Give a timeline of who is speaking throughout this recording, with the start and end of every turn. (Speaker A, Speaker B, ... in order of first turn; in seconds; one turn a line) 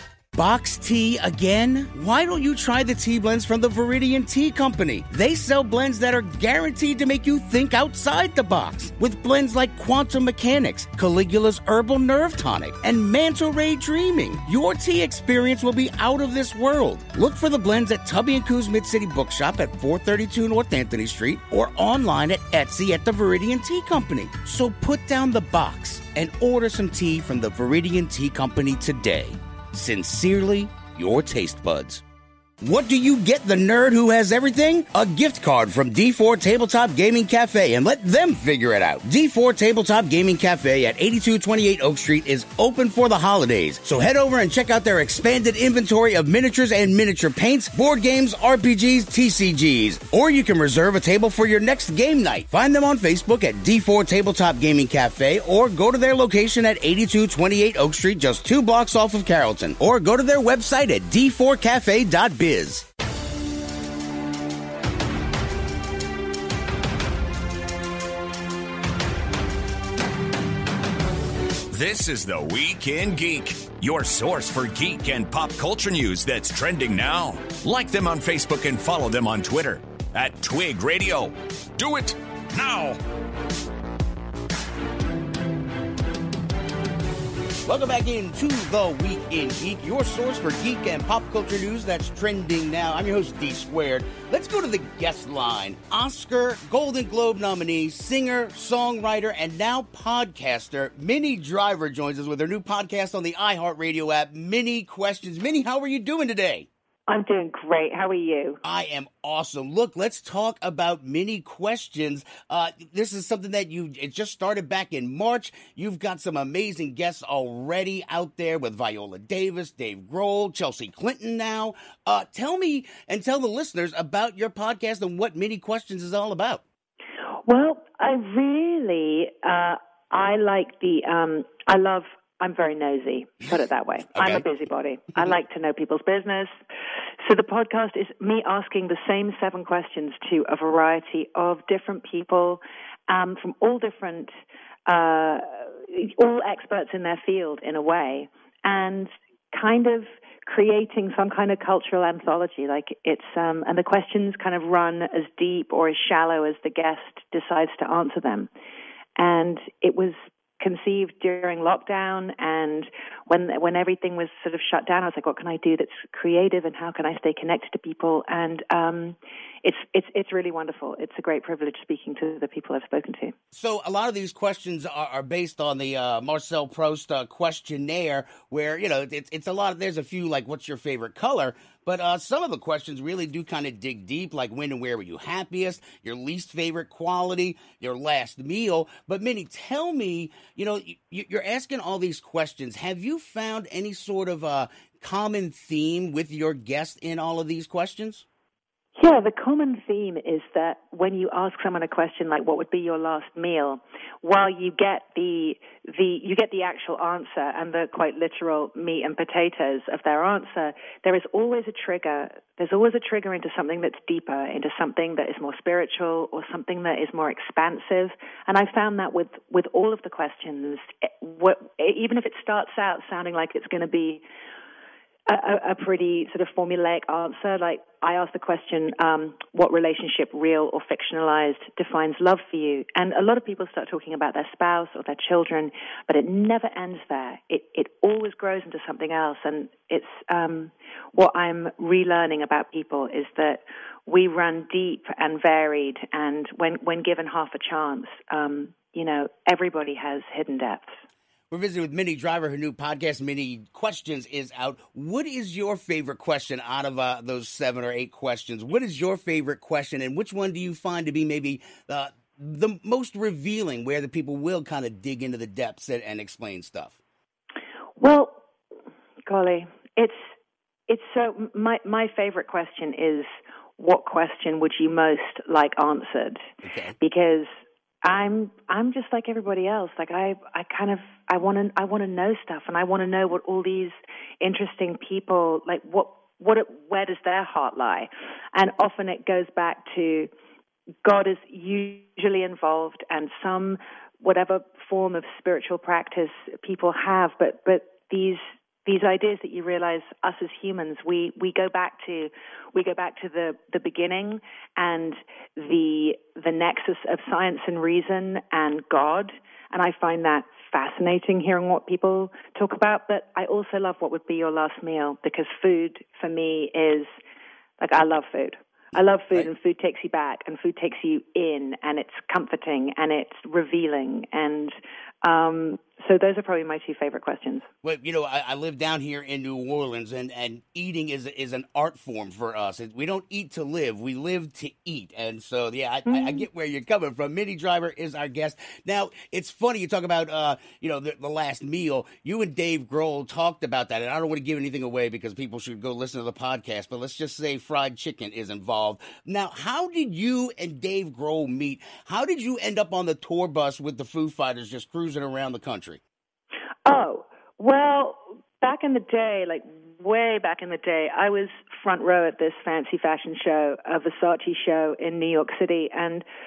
Speaker A: 0.3-32.0
Speaker A: 32.6-62.9
Speaker B: 71.7-83.0
Speaker A: 87.7-106.7
Speaker C: 107.1-108.6
Speaker A: 108.7-126.6
Speaker C: 127.5-136.5
Speaker A: 134.1-134.5
Speaker C: 137.2-144.3
Speaker C: 144.9-158.5
Speaker C: 159.2-173.3
Speaker A: 173.5-198.2
Speaker C: 199.0-224.2
Speaker C: 225.3-250.9
Speaker A: 251.5-267.0
Speaker C: 268.0-268.4
Speaker C: 269.3-270.3
Speaker C: 270.9-276.4
Speaker A: 276.6-277.0
Speaker C: 277.0-277.5
Speaker C: 278.1-290.3
Speaker C: 291.0-317.1
Speaker C: 317.8-327.7
Speaker A: 327.8-356.0
Speaker C: 336.1-336.4
Speaker C: 356.9-366.2